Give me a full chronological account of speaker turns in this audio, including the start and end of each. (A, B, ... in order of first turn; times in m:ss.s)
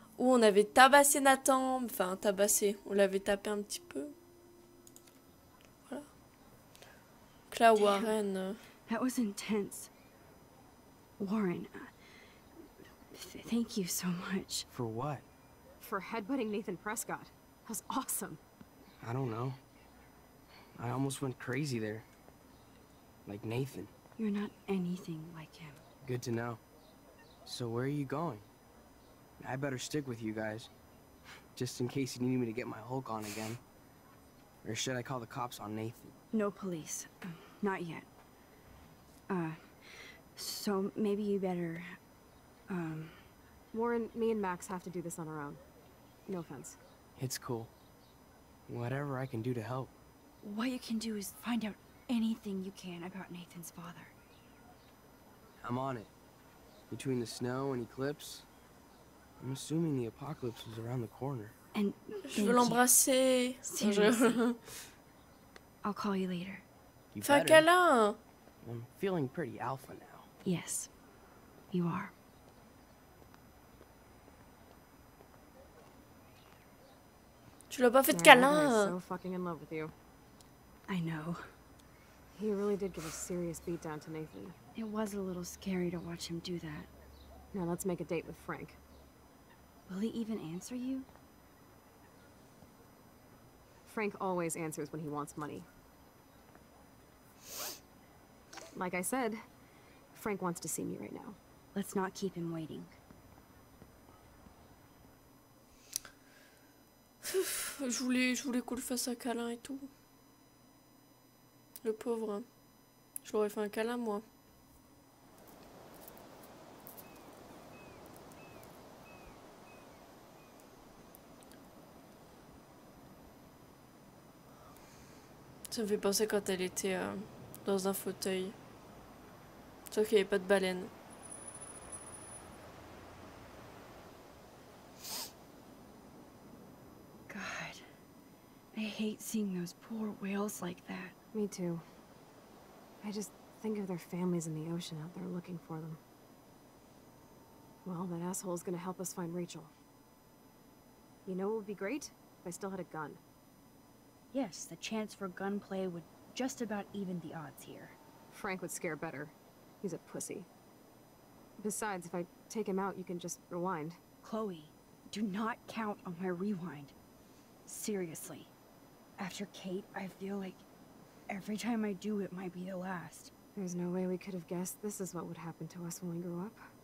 0:00.2-0:04.1 A
0:07.5-0:08.6 A
0:07.8-0:08.1 B
0:08.9-0:09.9 B
0:11.2-0:11.9 B
0:13.1-0:14.7 B
0:14.7-0:15.3 C
0:15.8-0:18.4 D
0:19.0-0:19.6 C
0:20.8-0:22.1 C
0:23.3-0:23.9 C
0:24.2-0:25.8 B
0:26.0-0:26.6 C
0:27.4-0:28.5 C
0:29.4-0:30.7 C
0:31.6-0:33.6 C
0:34.6-0:36.2 C
0:36.3-0:38.1 B
0:39.3-0:42.0 B
0:42.7-0:43.2 B
0:43.7-0:45.6 D
0:46.3-0:46.8 D
0:47.2-0:47.7 C
0:48.7-0:49.9 C
0:50.4-0:54.1 B
0:55.6-0:56.1 C
0:56.9-0:58.5 C
0:59.4-1:01.6 C
1:01.7-1:02.8 B
1:02.3-1:04.7 A
1:03.6-1:04.4 B
1:05.8-1:06.6 B
1:07.1-1:07.7 C
1:07.2-1:08.2 A
1:08.6-1:10.3 C
1:10.4-1:10.9 B
1:11.7-1:12.1 B
1:17.7-1:19.0 A
1:18.1-1:19.9 D
1:20.9-1:21.4 B
1:22.3-1:24.6 D
1:24.8-1:26.9 B
1:27.5-1:28.8 D
1:29.9-1:31.1 B
1:33.9-1:35.7 D
1:38.8-1:39.4 D
1:40.1-1:41.4 D
1:41.7-1:43.0 B
1:47.3-1:49.9 A
1:51.8-1:52.5 A
1:53.2-1:54.2 A
2:05.7-2:08.6 A
2:09.9-2:10.9 A
2:17.3-2:17.8 B
2:18.7-2:21.1 B
2:21.3-2:21.8 D
2:23.0-2:26.0 D
2:27.8-2:29.7 D
2:31.2-2:33.2 D
2:34.3-2:38.0 B
2:38.3-2:40.5 D
2:41.6-2:44.0 D
2:44.2-2:46.9 B
2:47.6-2:48.5 B
2:49.2-2:50.6 B
2:51.3-2:53.3 B
2:53.6-2:56.6 D